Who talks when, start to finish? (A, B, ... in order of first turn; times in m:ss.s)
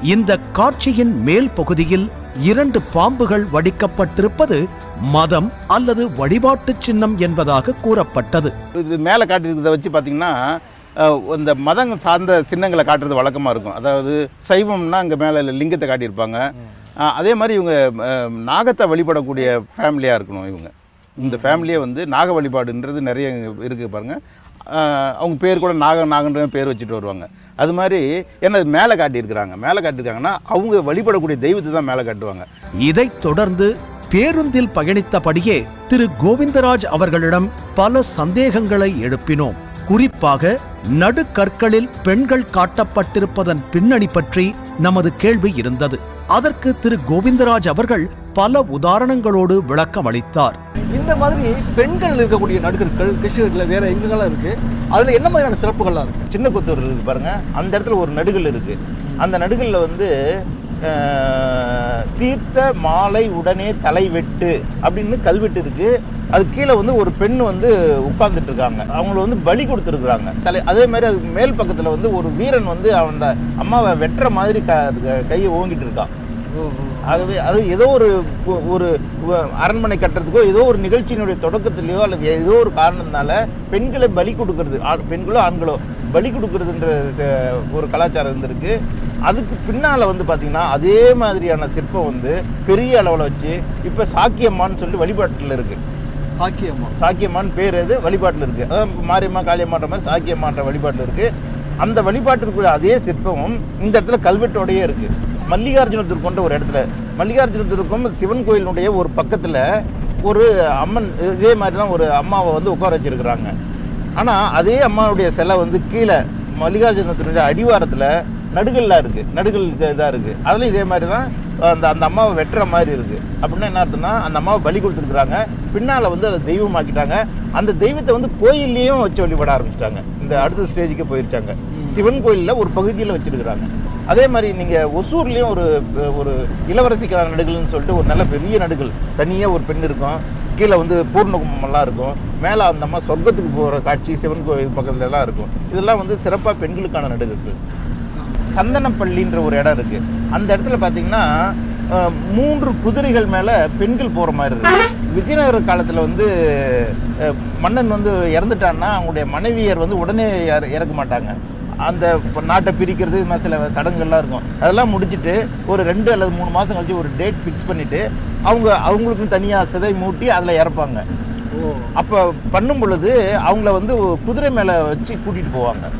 0:00.1-0:04.6 A
0:05.1-0:08.5 A
0:08.8-0:10.3 B
0:11.0-0:16.4 B
0:17.1-0:24.2 B
0:21.2-0:21.7 C
0:24.7-0:32.4 B
0:32.8-0:50.6 A
0:50.9-0:56.2 C
0:56.3-1:00.1 B
1:00.9-1:16.1 B
1:16.5-1:17.3 C
1:17.1-1:28.7 B
1:29.3-1:35.8 B
1:36.4-1:36.9 C
1:37.0-1:41.3 B
1:41.8-1:49.6 B
1:50.2-1:53.5 B
1:54.2-2:27.6 B
2:11.7-2:12.0 C
2:28.2-2:28.4 C
2:28.5-2:31.3 B
2:31.9-2:41.3 B
2:41.9-2:51.0 B
2:51.5-2:51.9 C
2:52.0-2:55.9 B